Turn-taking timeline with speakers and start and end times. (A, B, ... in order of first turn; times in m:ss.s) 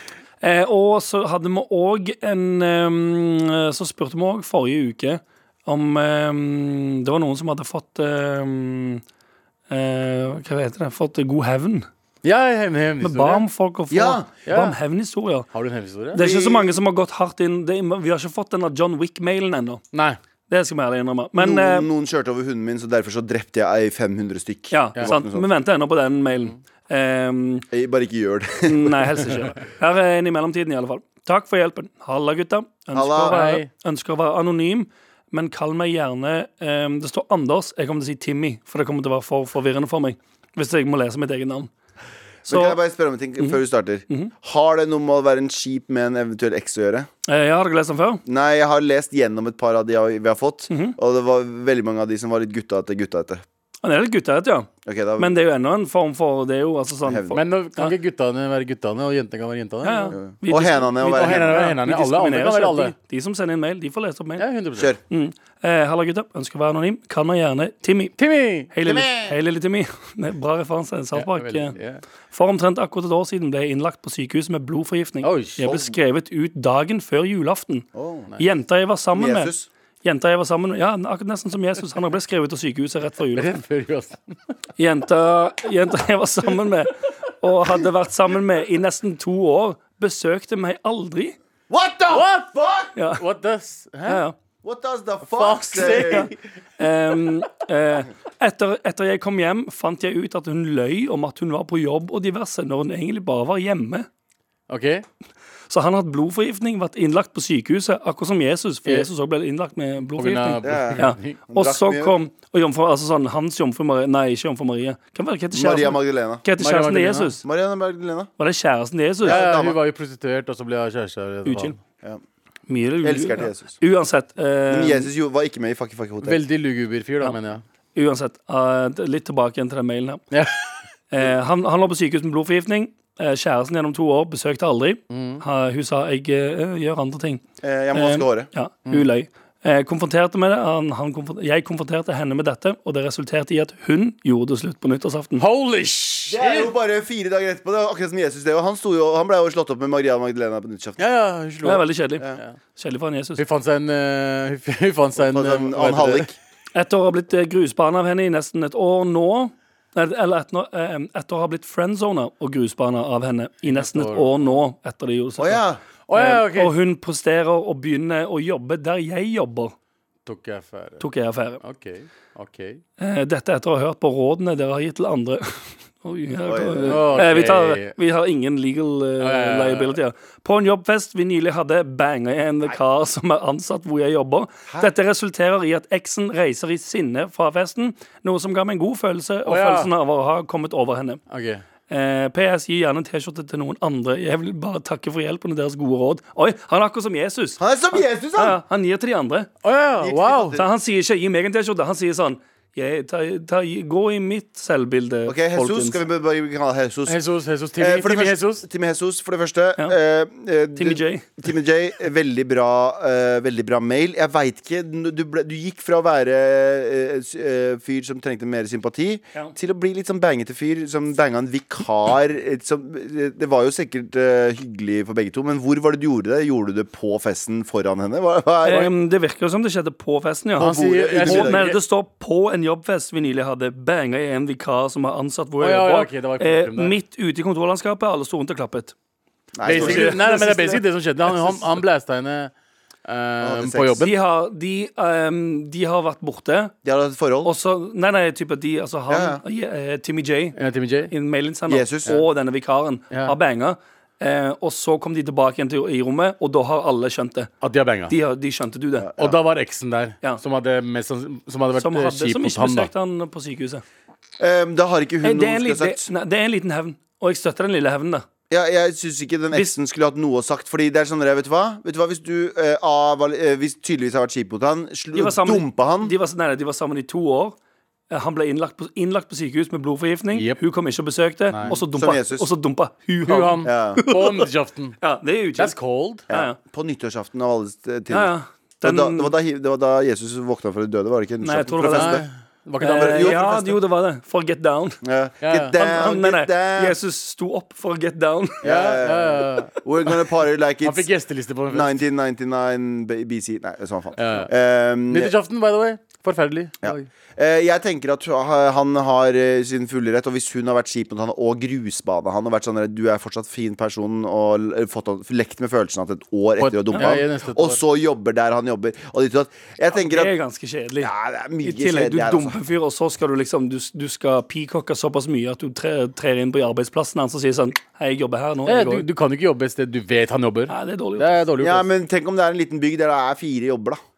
0:00.4-0:09.0 A
0:09.7-0:11.9 A
0:12.2-0:13.4 B
0:13.0-0:15.5 A
0:13.9-0:14.3 C
0:14.5-0:14.8 B
0:15.5-0:16.2 B
0:16.1-0:19.8 A
0:16.1-0:16.8 C
0:19.9-0:20.2 B
0:20.5-0:21.9 A
0:21.3-0:25.5 C
0:24.7-0:27.7 A
0:27.7-0:29.1 C
0:28.6-0:41.7 A
0:32.9-0:33.4 C
0:33.3-0:33.7 B
0:42.4-0:42.8 A
0:42.4-0:47.1 C
0:47.3-0:48.2 A
0:48.2-0:53.4 C
0:50.7-0:51.0 A
0:53.8-0:57.9 A
0:54.8-0:55.4 C
0:57.0-0:57.4 C
0:57.3-1:00.2 B
0:59.8-1:04.4 A
1:00.1-1:01.6 C
1:01.0-1:02.9 B
1:04.4-1:04.9 B
1:05.1-1:08.1 A
1:08.2-1:08.7 B
1:08.7-1:11.8 A
1:08.8-1:09.4 C
1:11.1-1:12.0 B
1:12.3-1:17.8 A
1:15.2-1:15.6 B
1:15.6-1:15.9 C
1:17.9-1:18.3 C
1:18.4-1:19.5 A
1:19.1-1:19.7 C
1:20.0-1:23.5 A
1:23.3-1:24.3 B
1:24.8-1:31.4 A
1:31.7-1:32.9 C
1:32.1-1:34.2 B
1:33.0-1:33.2 A
1:34.0-1:34.4 A
1:34.6-1:36.3 C
1:35.3-1:36.4 B
1:35.8-1:44.1 A
1:44.7-1:45.0 B
1:45.7-1:57.4 A
1:50.2-1:51.4 B
1:50.6-1:52.2 C
1:55.5-1:56.4 C
1:56.6-1:57.3 B
1:57.4-1:58.3 C
1:58.4-1:59.4 A
1:59.2-1:59.8 C
1:59.2-2:01.7 B
2:01.4-2:01.8 A
2:02.7-2:05.1 A
2:03.0-2:03.7 C
2:04.7-2:06.4 C
2:06.2-2:07.6 B
2:07.9-2:10.2 A
2:10.3-2:10.6 B
2:11.1-2:17.4 A
2:15.1-2:15.4 B
2:17.6-2:18.5 C
2:17.9-2:25.4 A
2:25.4-2:26.7 B
2:26.3-2:31.0 C
2:31.0-2:32.5 B
2:31.6-2:32.2 A
2:32.8-2:33.4 A
2:33.4-2:36.3 B
2:35.2-2:36.3 C
2:36.7-2:45.6 A
2:43.7-2:44.5 B
2:45.4-2:45.8 C
2:46.1-2:46.7 B
2:46.1-2:49.7 A
2:50.2-2:51.0 B
2:51.0-2:51.6 A
2:51.6-2:52.8 B
2:53.0-3:11.2 A
2:56.4-2:57.2 C
2:56.9-2:57.9 B
2:59.2-3:00.0 B
3:09.4-3:09.9 B
3:11.3-3:11.6 B
3:11.9-3:17.6 A
3:17.6-3:18.6 C
3:18.3-3:19.5 A
3:19.6-3:20.6 B
3:20.0-3:20.7 C
3:20.5-3:26.0 A
3:25.3-3:27.2 C
3:27.1-3:28.6 B
3:27.8-3:48.9 C
3:30.8-3:31.2 A
3:48.6-3:58.9 A
3:50.6-3:51.6 C
3:50.6-3:51.8 B
3:55.6-3:56.9 B
3:59.5-4:00.8 C
3:59.6-4:02.5 B
3:59.7-4:00.8 A
4:03.0-4:04.1 B
4:03.4-4:04.0 C
4:04.0-4:06.7 A
4:06.8-4:07.5 C
4:07.4-4:10.6 A
4:09.1-4:09.4 C
4:10.6-4:11.1 B
4:11.1-4:17.5 A
4:11.7-4:12.2 C
4:17.6-4:18.1 B
4:18.1-4:19.1 A
4:19.0-4:19.4 C
4:19.2-4:22.9 B
4:21.8-4:23.8 A
4:24.4-4:26.1 C
4:25.2-4:28.2 A
4:28.5-4:36.1 C
4:35.1-4:37.6 A
4:38.1-4:44.5 A
4:40.3-4:40.6 B
4:41.5-4:41.7 B
4:41.6-4:42.5 C
4:43.2-4:45.0 B
4:43.6-4:44.0 C
4:45.0-4:45.8 A
4:45.6-4:46.2 B
4:46.3-4:46.6 A
4:46.3-4:52.2 C
4:48.1-4:49.3 A
4:51.4-4:52.2 A
4:51.9-4:53.4 B
4:52.8-4:55.0 A
4:52.9-4:53.8 C
4:55.0-4:57.0 C
4:55.4-4:55.7 B
4:55.8-4:58.6 A
4:58.6-4:59.7 B
4:58.6-5:01.1 C
5:00.8-5:02.0 B
5:01.7-5:05.3 C
5:04.2-5:04.5 B
5:05.1-5:07.1 B
5:06.8-5:20.3 C
5:16.6-5:17.8 B
5:19.9-5:21.1 A
5:21.0-5:22.6 C
5:21.6-5:29.1 A
5:28.7-5:31.9 B
5:30.7-5:31.4 A
5:31.6-5:34.0 C